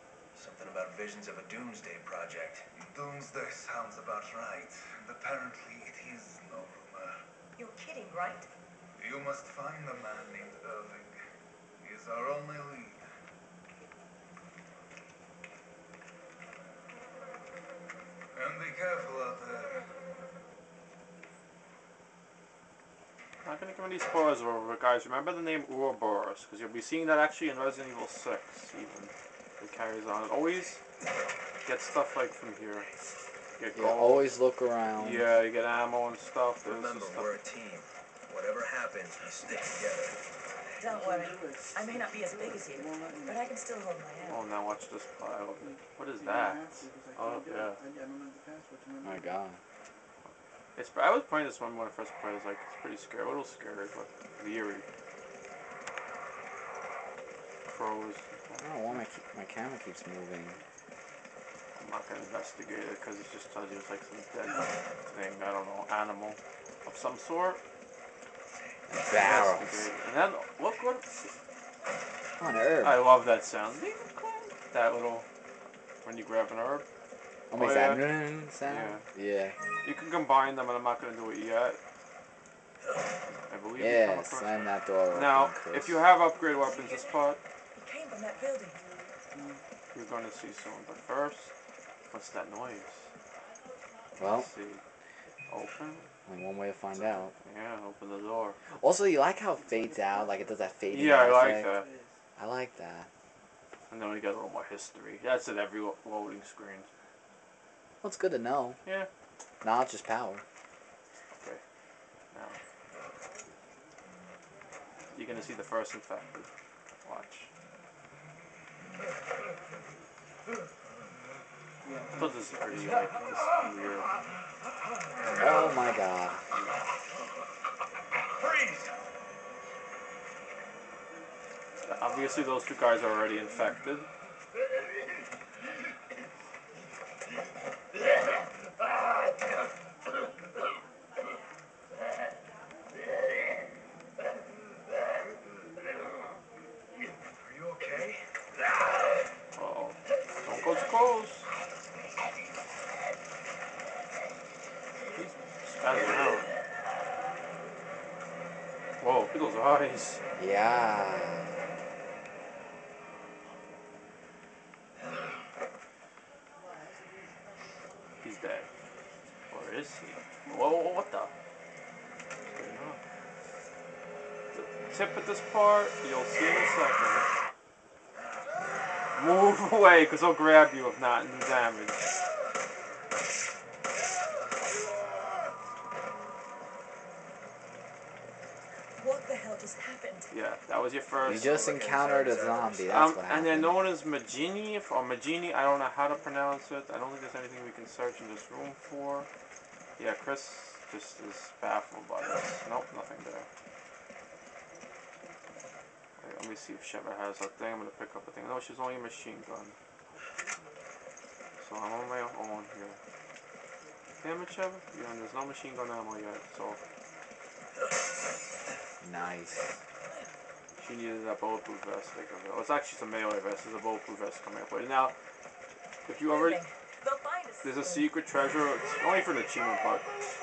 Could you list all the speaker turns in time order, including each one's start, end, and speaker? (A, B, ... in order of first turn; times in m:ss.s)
0:00.3-0:02.7 A
0:02.7-0:07.2 B
0:07.6-0:08.5 C
0:08.9-0:11.2 B
0:11.8-0:13.0 B
0:18.3-0:19.9 B
0:23.4-0:30.8 D
0:31.6-0:32.9 D
0:33.6-0:34.4 D
0:33.7-0:35.3 E
0:34.9-0:37.4 D
0:36.6-0:40.2 A
0:40.8-0:44.5 C
0:40.8-0:43.4 F
0:44.3-0:47.8 D
0:45.6-0:49.3 F
0:49.0-0:49.6 E
0:50.7-0:54.8 D
0:57.7-0:58.6 D
0:58.6-1:00.6 E
1:01.7-1:07.6 D
1:08.9-1:09.9 E
1:09.1-1:11.3 D
1:12.4-1:13.0 E
1:12.8-1:15.3 D
1:16.0-1:16.8 D
1:17.5-1:19.6 E
1:17.6-1:18.1 D
1:18.6-1:19.0 D
1:19.8-1:21.8 D
1:23.5-1:27.4 D
1:23.8-1:26.0 E
1:26.7-1:27.2 C
1:27.7-1:28.8 C
1:29.3-1:29.6 F
1:29.9-1:31.5 D
1:32.1-1:33.1 D
1:34.2-1:34.5 E
1:34.2-1:34.8 D
1:35.5-1:36.1 D
1:36.2-1:37.3 E
1:37.0-1:38.6 D
1:38.7-1:41.7 E
1:40.0-1:40.3 F
1:40.9-1:41.9 D
1:41.6-1:42.1 F
1:42.4-1:43.1 E
1:43.9-1:46.9 D
1:48.0-1:48.8 E
1:49.6-1:50.4 E
1:51.3-1:51.6 D
1:52.3-1:52.6 D
1:55.1-1:56.5 D
1:57.0-1:57.5 D
2:01.8-2:02.8 F
2:02.1-2:04.1 D
2:05.3-2:06.4 E
2:11.8-2:14.1 D
2:27.4-2:28.2 A
2:29.5-2:31.5 D
2:35.1-2:36.5 D
2:39.0-2:40.2 D
2:40.4-2:41.6 E
2:48.2-2:48.7 D
2:49.5-2:51.3 D
2:52.4-2:53.0 D
2:54.5-2:57.3 D
2:59.2-3:02.0 D
3:09.0-3:10.3 C
3:10.3-3:11.7 D
3:11.2-3:13.8 E
3:11.3-3:12.9 A
3:12.9-3:19.3 D
3:20.0-3:23.5 D
3:26.2-3:29.7 D
3:31.6-3:33.0 D
3:34.2-3:36.8 D
3:39.0-3:39.7 E
3:40.1-3:40.3 C
3:40.8-3:45.1 D
3:46.0-3:46.6 D
3:46.3-3:48.1 C
3:47.6-3:50.1 D